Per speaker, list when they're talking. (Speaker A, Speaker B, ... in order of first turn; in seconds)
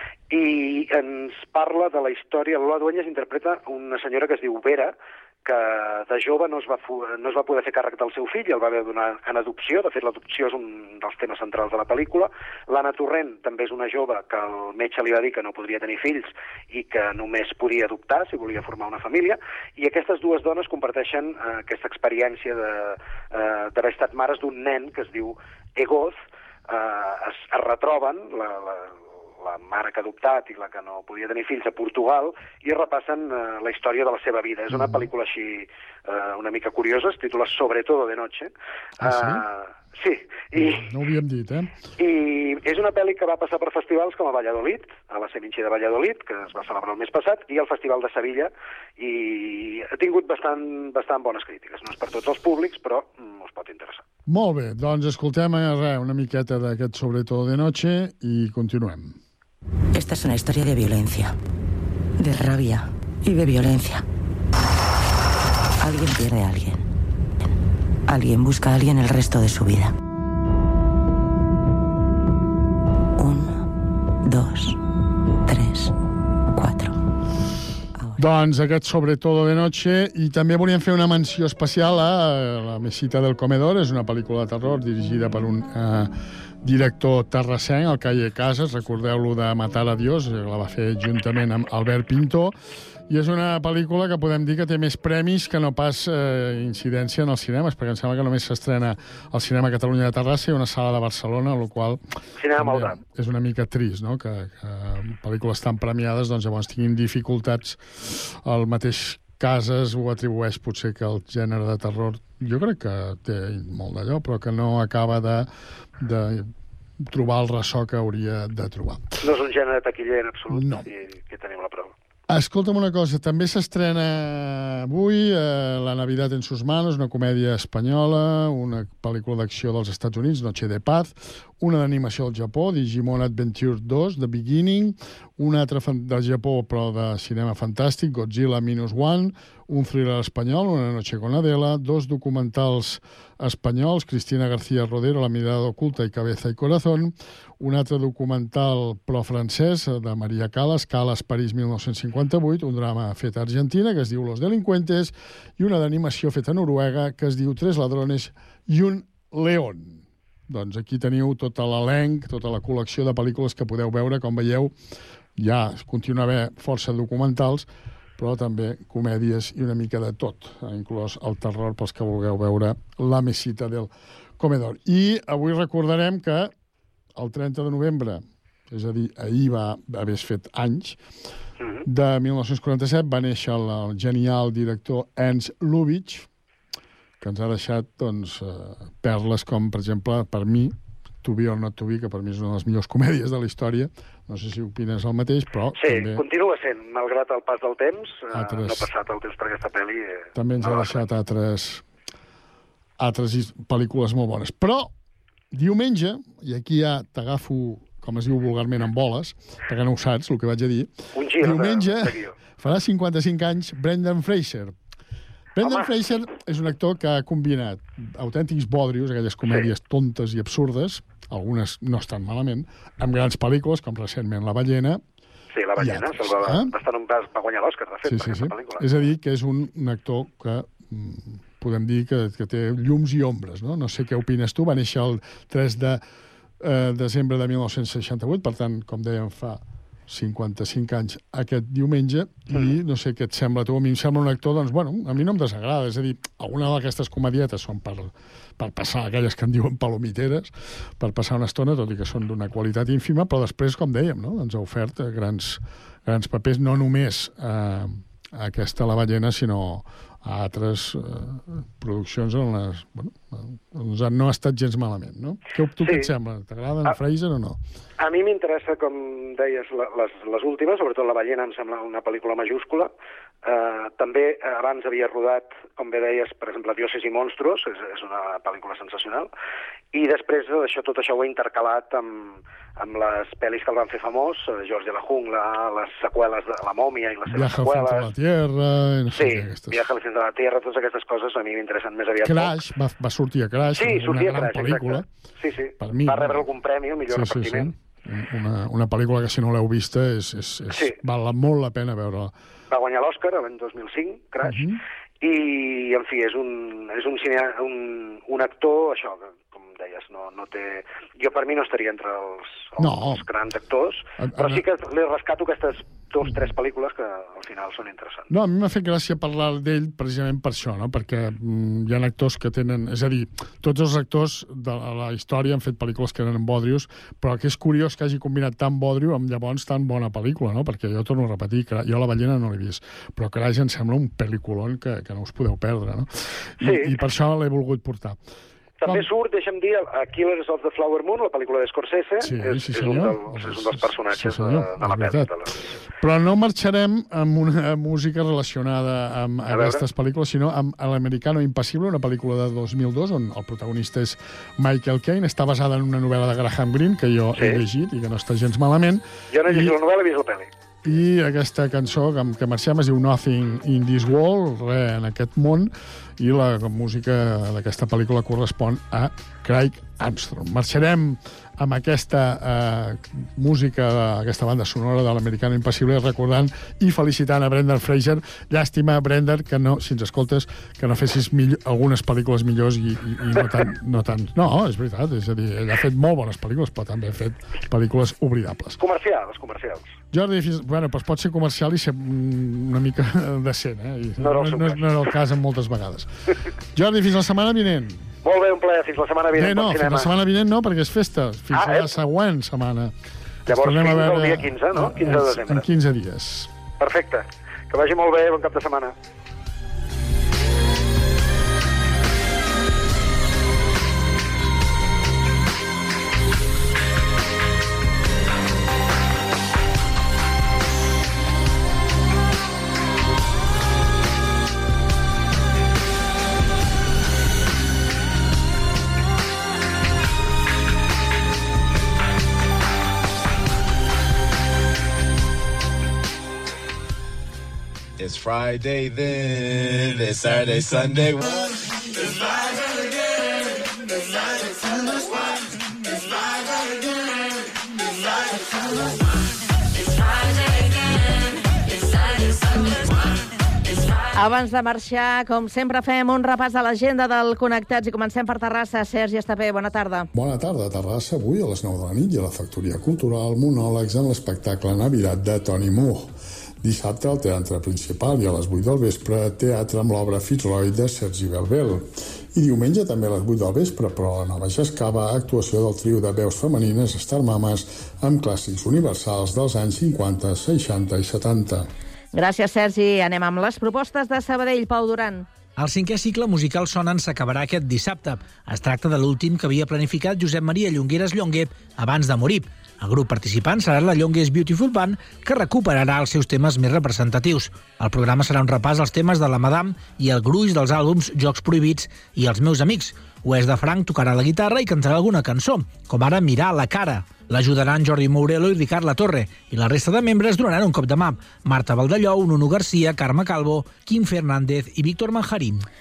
Speaker A: 0.3-26.1, 26.7-38.5, 39.0-40.9, 42.0-54.0, 102.4-103.0, 119.2-121.9, 195.8-201.0, 211.1-212.3, 215.6-215.9, 225.5-229.0, 265.8-266.1, 268.0-272.9, 273.4-279.3, 279.9-288.1, 289.1-292.6, 293.7-297.7, 302.7-304.6, 305.2-318.3, 336.6-336.9, 338.8-345.5, 349.5-349.8, 357.3-357.6, 359.3-360.5, 388.8-389.9, 394.2-395.0, 398.2-400.1, 401.5-401.9, 403.5-405.6, 406.8-408.9
Speaker B: 34.7-35.1, 39.0-39.4, 40.5-41.8, 54.3-59.2, 78.2-86.1, 86.6-92.5, 93.1-102.0, 102.5-119.2, 120.5-120.8, 122.3-164.7, 165.3-176.5, 177.2-181.0, 181.8-186.3, 187.2-196.2, 198.3-198.9, 200.3-201.8, 203.0-204.9, 205.5-214.7, 215.6-225.0, 225.8-226.7, 228.1-236.0, 236.6-267.6, 287.3-289.9, 292.2-295.0, 295.8-296.4, 297.1-302.3, 304.4-304.8, 312.8-313.2, 314.2-314.6, 318.3-338.2, 342.2-345.3, 346.0-359.7, 360.8-388.8, 390.1-396.1, 396.7-398.1, 399.3-402.9, 403.5-406.5, 460.1-481.7
Speaker C: 59.9-61.3, 62.2-64.0, 65.8-66.8, 68.1-69.9, 73.2-73.5, 74.2-74.7, 75.5-75.9, 76.5-76.9
Speaker D: 438.0-441.3
Speaker E: 454.1-460.1, 482.1-485.3
Speaker F: 485.6-515.6